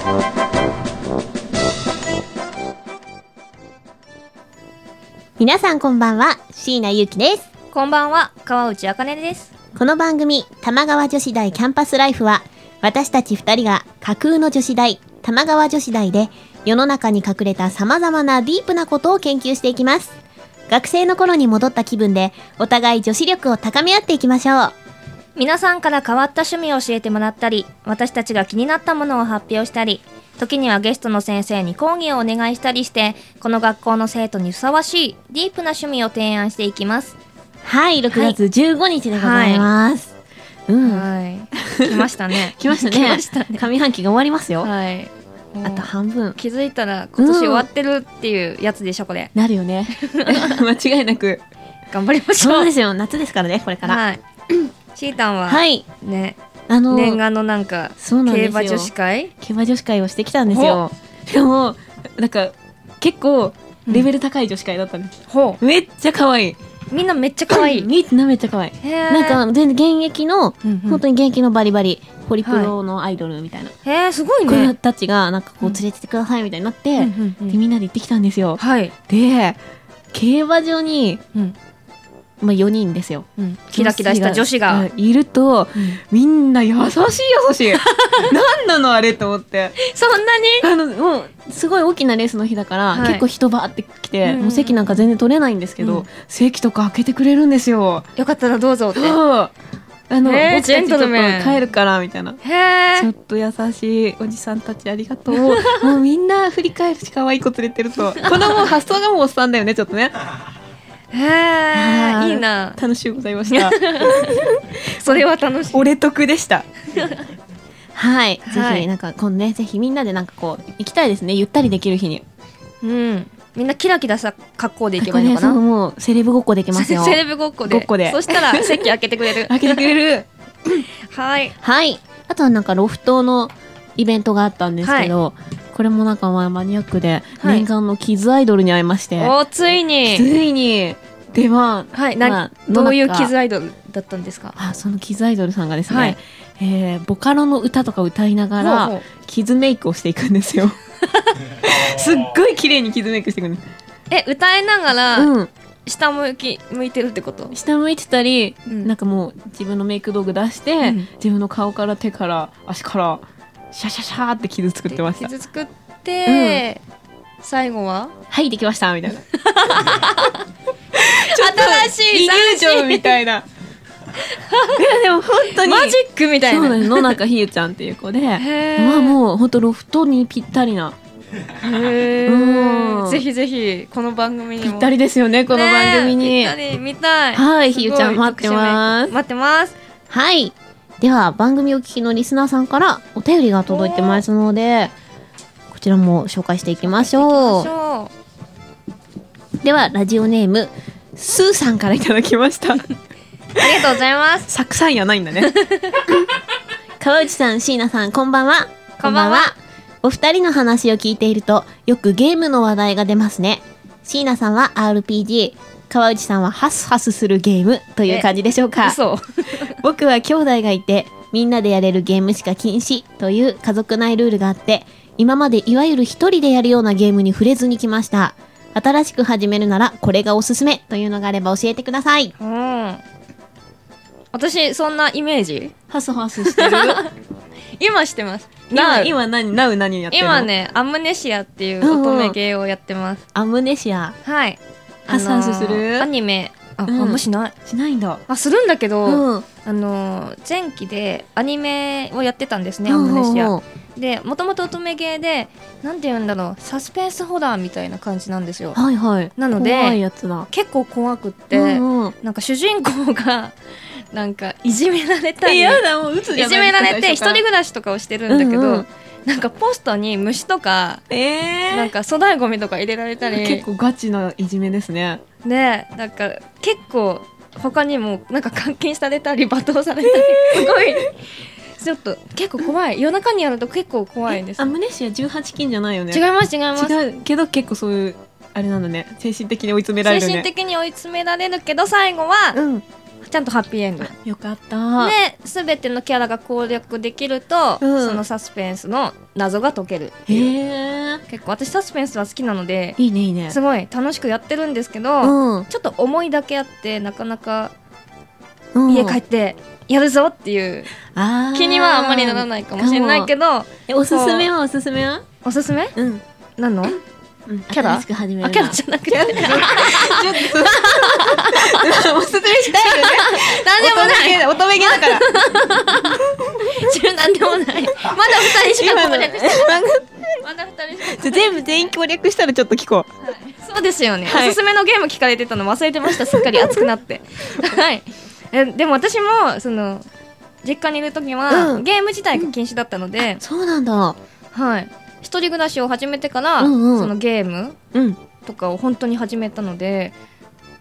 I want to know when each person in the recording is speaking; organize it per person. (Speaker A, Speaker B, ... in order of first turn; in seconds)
Speaker A: 5.4-7.5, 9.7-20.1, 20.7-24.7, 37.6-40.1, 40.7-44.7, 45.6-46.4, 47.2-47.7, 49.3-51.4, 52.4-54.0, 55.5-55.8, 56.7-57.2, 58.0-66.6, 67.5-73.7, 74.5-79.6, 80.1-81.2, 82.4-89.8, 90.6-98.0, 98.9-99.5, 100.1-102.4, 102.9-110.1, 111.7-114.4, 115.0-116.7, 117.9-122.2, 125.0-128.8, 129.3-130.8, 131.6-139.3, 140.1-143.3, 144.6-150.8, 151.6-153.6, 155.1-155.5, 157.5-165.3, 166.2-166.6, 168.3-169.2, 170.9-173.4, 174.7-180.9, 182.2-183.2, 184.6-186.6, 187.3-189.1, 190.1-194.9, 195.7-197.7, 199.6-202.8, 203.6-203.9, 204.5-205.5, 207.0-219.0, 219.7-232.3, 235.9-237.0, 238.7-240.5, 241.8-242.4, 243.3-244.1, 245.1-246.1, 246.8-248.2, 249.1-249.4, 252.8-253.6, 258.7-260.5, 261.5-262.1, 265.4-267.4, 268.3-268.9, 271.1-271.9, 273.2-275.2, 280.0-281.0, 284.3-286.2, 286.7-290.5, 292.5-292.8, 294.1-295.1, 297.8-298.2, 300.3-301.2, 303.0-303.6, 305.2-305.7, 308.7-309.2, 311.1-313.3, 313.9-315.2, 315.9-316.2, 317.5-325.3, 326.4-326.7, 328.1-330.2, 331.0-333.1, 334.2-334.6, 336.1-336.8, 341.5-342.5, 343.3-344.2, 346.6-347.1, 347.9-348.2
Speaker B: 7.7-9.5, 25.4-37.1, 38.1-38.4, 39.1-39.7, 40.8-43.6, 44.6-49.3, 49.9-50.6, 51.9-52.7, 53.8-54.2, 54.9-59.3, 60.5-60.8, 65.3-65.6, 66.9-67.9, 68.8-69.4, 70.6-71.0, 72.4-72.7, 73.8-74.7, 77.0-77.6, 78.6-78.9, 83.4-84.9, 89.8-90.7, 92.9-93.2, 94.2-95.0, 95.8-96.0, 98.2-99.2, 100.2-101.6, 102.4-103.1, 105.4-105.9, 111.1-112.8, 113.5-115.9, 118.4-118.9, 122.8-125.6, 126.7-129.9, 131.1-131.6, 134.8-135.1, 137.4-137.7, 139.2-140.3, 141.9-144.6, 145.9-146.2, 148.6-149.0, 154.1-155.3, 155.8-157.5, 158.7-158.9, 160.8-161.1, 164.9-166.8, 167.4-168.1, 169.4-170.4, 171.3-173.2, 174.3-174.8, 175.5-177.2, 178.3-179.2, 181.6-184.9, 185.5-189.8, 193.7-194.2, 196.8-198.1, 203.6-204.5, 205.4-206.0, 209.0-209.5, 218.8-219.8, 232.4-233.0, 234.3-235.7, 236.4-237.1, 237.8-239.1, 240.1-243.2, 244.2-247.5, 248.3-258.8, 259.4-263.5, 264.1-271.0, 271.7-273.6, 275.4-281.2, 281.8-284.7, 286.1-286.9, 290.0-292.6, 293.2-294.1, 295.0-300.5, 301.3-303.0, 303.5-307.7, 308.9-310.9, 311.5-314.5, 315.4-315.9, 316.6-317.0, 317.7-321.9, 322.7-331.9, 333.2-340.1, 340.6-343.4, 344.5-347.8, 348.4-350.1